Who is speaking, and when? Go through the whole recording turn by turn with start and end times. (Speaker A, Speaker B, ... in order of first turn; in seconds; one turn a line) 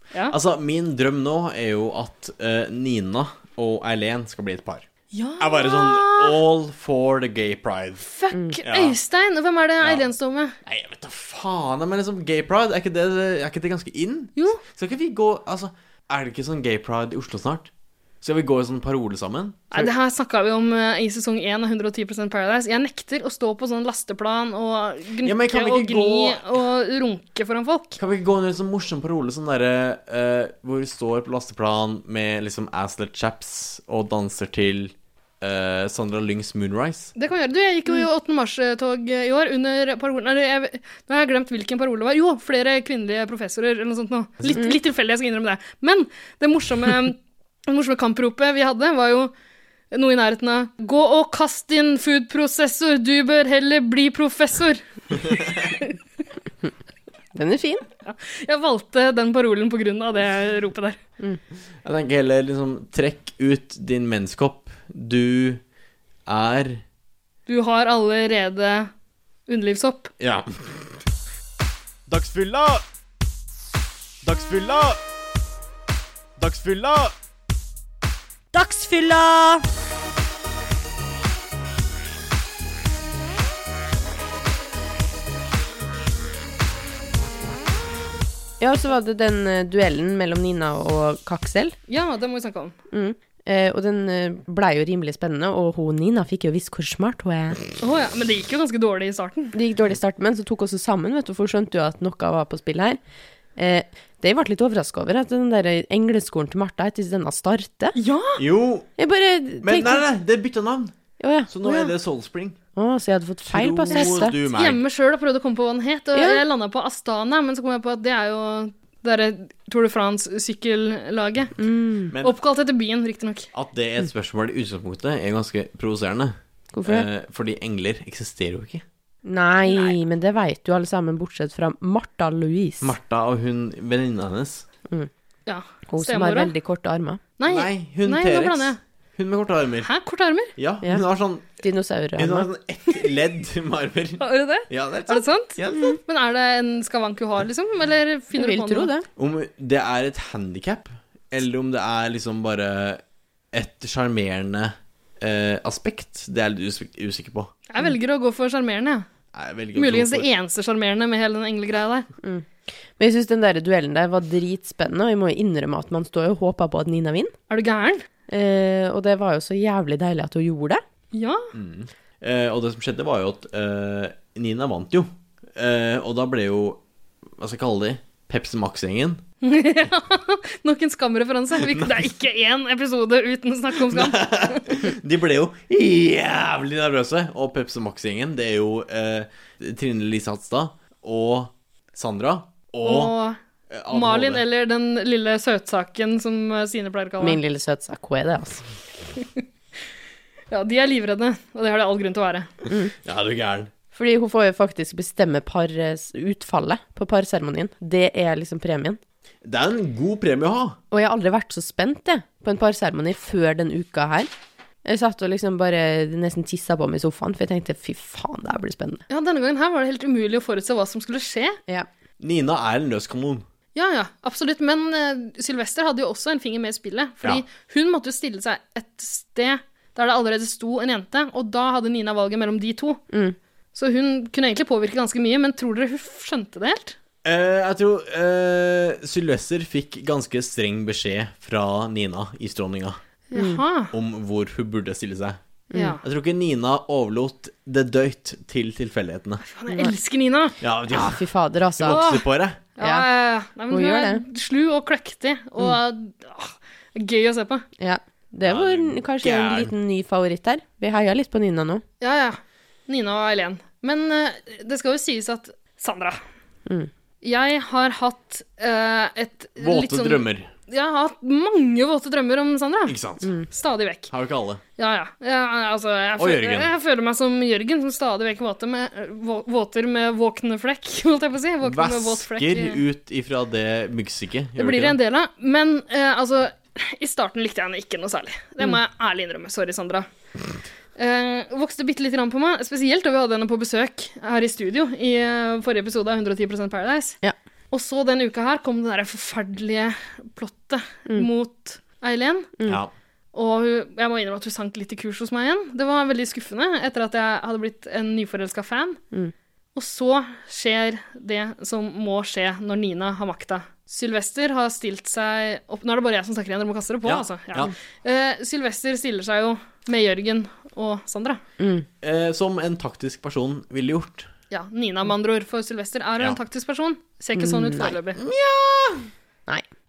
Speaker A: 0.3-4.9
Speaker B: 5.1-6.4
Speaker A: 5.4-8.0
Speaker B: 8.0-10.6
Speaker A: 8.6-9.0
Speaker A: 9.8-10.1
Speaker A: 10.7-17.7
Speaker A: 18.2-19.9
Speaker B: 19.7-28.0
Speaker A: 25.2-26.4
Speaker A: 28.0-37.1
Speaker B: 37.2-49.3
Speaker B: 49.9-55.9
Speaker C: 57.3-57.9
Speaker B: 58.0-61.0
Speaker A: 61.8-65.6
Speaker A: 66.3-66.8
Speaker B: 67.5-68.9
Speaker B: 69.5-70.1
Speaker A: 70.2-71.0
Speaker A: 72.1-72.8
Speaker A: 74.2-75.0
Speaker A: 76.4-77.1
Speaker C: 78.5-79.6
Speaker C: 88.6-91.8
Speaker B: 91.9-92.7
Speaker C: 92.9-97.6
Speaker B: 97.8-99.6
Speaker C: 99.5-103.0
Speaker C: 103.6-108.0
Speaker B: 108.0-108.4
Speaker A: 108.4-108.9
Speaker C: 109.0-110.0
Speaker A: 109.6-111.0
Speaker C: 111.2-111.9
Speaker A: 111.5-112.6
Speaker C: 112.8-114.4
Speaker A: 113.5-114.8
Speaker B: 113.9-121.6
Speaker C: 116.2-116.4
Speaker C: 121.6-122.1
Speaker A: 122.1-122.4
Speaker B: 122.2-123.5
Speaker A: 123.5-128.8
Speaker C: 126.7-127.1
Speaker C: 129.2-132.9
Speaker B: 129.7-129.9
Speaker A: 132.8-134.7
Speaker B: 135.5-136.5
Speaker C: 135.9-137.2
Speaker B: 137.4-138.8
Speaker A: 137.5-139.9
Speaker B: 139.8-140.5
Speaker A: 140.6-141.6
Speaker C: 141.6-142.5
Speaker A: 142.2-146.0
Speaker B: 144.2-148.9
Speaker C: 145.7-146.0
Speaker C: 148.4-149.1
Speaker A: 149.2-153.0
Speaker A: 153.5-157.5
Speaker B: 157.7-159.1
Speaker A: 159.3-160.3
Speaker B: 159.8-162.1
Speaker C: 162.2-167.3
Speaker B: 167.5-168.1
Speaker C: 168.3-170.8
Speaker B: 171.1-171.5
Speaker A: 171.5-176.8
Speaker A: 177.4-179.2
Speaker B: 179.4-184.6
Speaker A: 181.7-181.9
Speaker A: 183.9-193.1
Speaker B: 192.8-193.4
Speaker A: 193.7-194.4
Speaker B: 193.9-197.4
Speaker C: 197.2-198.6
Speaker B: 200.5-202.5
Speaker A: 203.0-203.7
Speaker C: 203.9-209.0
Speaker A: 209.4-210.8
Speaker C: 210.9-214.3
Speaker C: 214.8-219.0
Speaker B: 219.1-221.6
Speaker A: 222.2-223.4
Speaker B: 223.8-233.0
Speaker C: 233.1-233.4
Speaker B: 233.7-237.0
Speaker A: 237.2-243.0
Speaker B: 243.3-243.9
Speaker C: 243.3-243.6
Speaker A: 243.9-245.4
Speaker C: 245.7-246.0
Speaker B: 245.7-246.0
Speaker A: 246.0-249.4
Speaker B: 249.4-250.6
Speaker C: 249.7-249.9
Speaker A: 250.6-251.2
Speaker C: 250.9-252.1
Speaker A: 251.8-252.6
Speaker B: 251.9-257.6
Speaker C: 252.8-253.1
Speaker C: 253.7-254.2
Speaker C: 257.8-261.8
Speaker A: 258.4-259.7
Speaker B: 262.0-266.2
Speaker B: 267.2-273.0
Speaker A: 269.6-270.5
Speaker A: 272.9-273.3
Speaker C: 273.2-273.5
Speaker B: 273.5-274.1
Speaker A: 274.1-274.6
Speaker B: 274.8-282.8
Speaker A: 276.2-276.7
Speaker A: 281.6-285.0
Speaker B: 284.6-290.1
Speaker B: 291.0-297.2
Speaker B: 297.7-302.6
Speaker A: 302.7-302.9
Speaker B: 303.3-309.0
Speaker B: 309.8-321.4
Speaker A: 317.1-317.7
Speaker C: 321.6-321.9
Speaker A: 322.0-324.3
Speaker B: 324.5-328.2
Speaker C: 327.4-328.0
Speaker A: 328.2-329.1